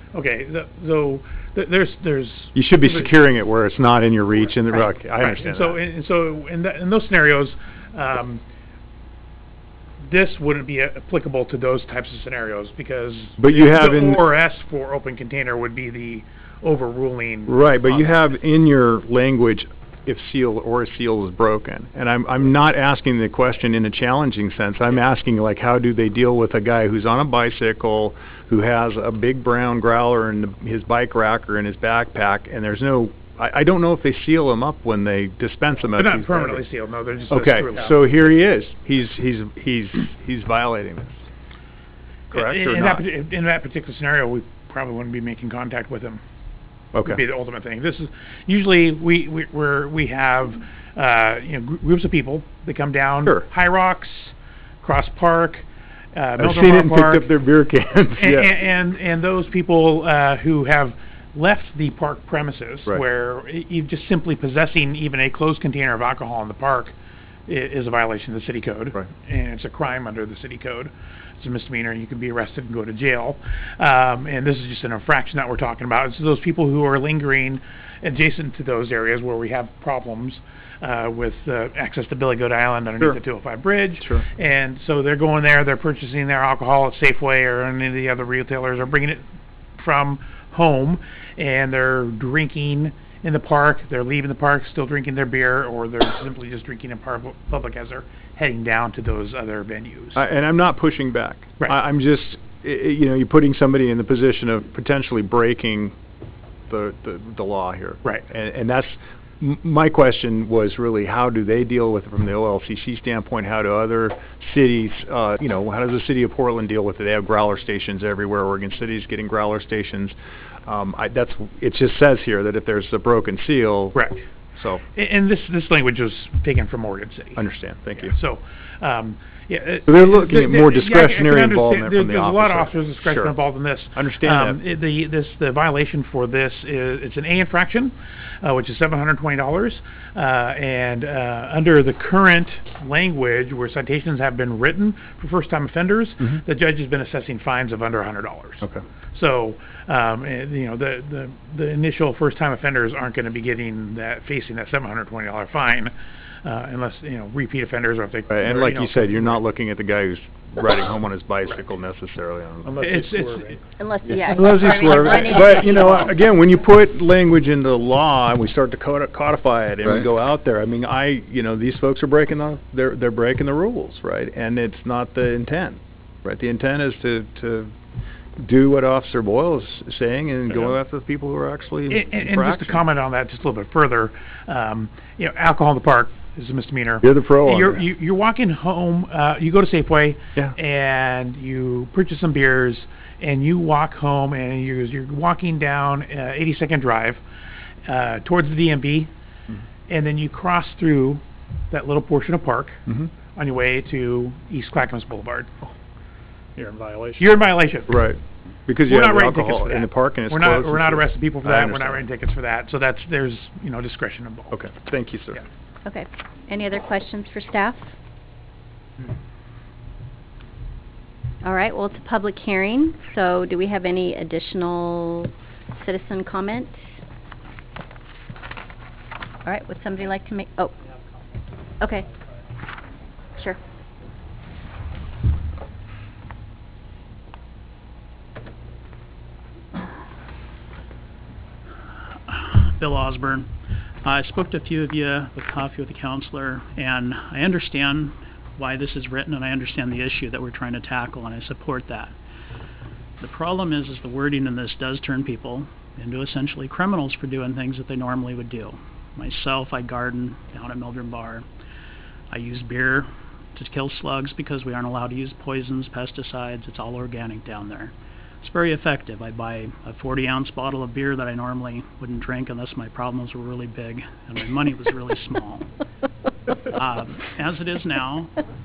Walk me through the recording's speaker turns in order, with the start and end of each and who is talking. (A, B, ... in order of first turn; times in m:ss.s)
0:00.1-0:03.1 A
0:02.5-0:05.8 B
0:04.4-0:08.4 A
0:10.0-0:18.2 A
0:13.4-0:14.2 B
0:17.5-0:36.6 B
0:36.0-0:38.0 A
0:37.3-0:41.2 B
0:42.3-0:43.0 B
0:42.3-0:46.2 A
0:46.9-0:47.2 B
0:47.0-0:57.3 A
0:56.4-0:58.5 B
0:58.2-1:06.9 A
1:07.5-1:29.2 A
1:29.8-1:40.2 A
1:40.1-1:45.9 B
1:46.7-2:04.0 B
2:03.9-2:04.2 A
2:04.6-2:04.8 B
2:04.9-2:07.4 A
2:07.4-2:08.1 B
2:07.9-2:35.9 A
2:09.9-2:13.3 B
2:13.9-2:14.6 B
2:36.4-2:39.4 A
2:38.3-2:43.3 B
2:42.6-2:43.6 A
2:43.8-2:46.1 C
2:44.1-2:57.7 B
2:58.4-3:02.8 B
3:01.9-3:17.2 A
3:07.0-3:07.8 B
3:17.9-3:19.1 A
3:19.9-3:25.5 A
3:27.2-3:27.9 A
3:27.9-3:32.0 B
3:28.8-3:34.6 A
3:34.5-3:35.4 B
3:35.8-3:37.9 C
3:41.4-3:46.9 C
3:49.4-3:50.8 C
3:51.8-3:52.1 C
4:02.3-4:03.5 D
4:04.0-4:12.1 D
4:13.2-4:21.4 D
4:22.3-4:35.7 D
4:36.6-4:38.3 D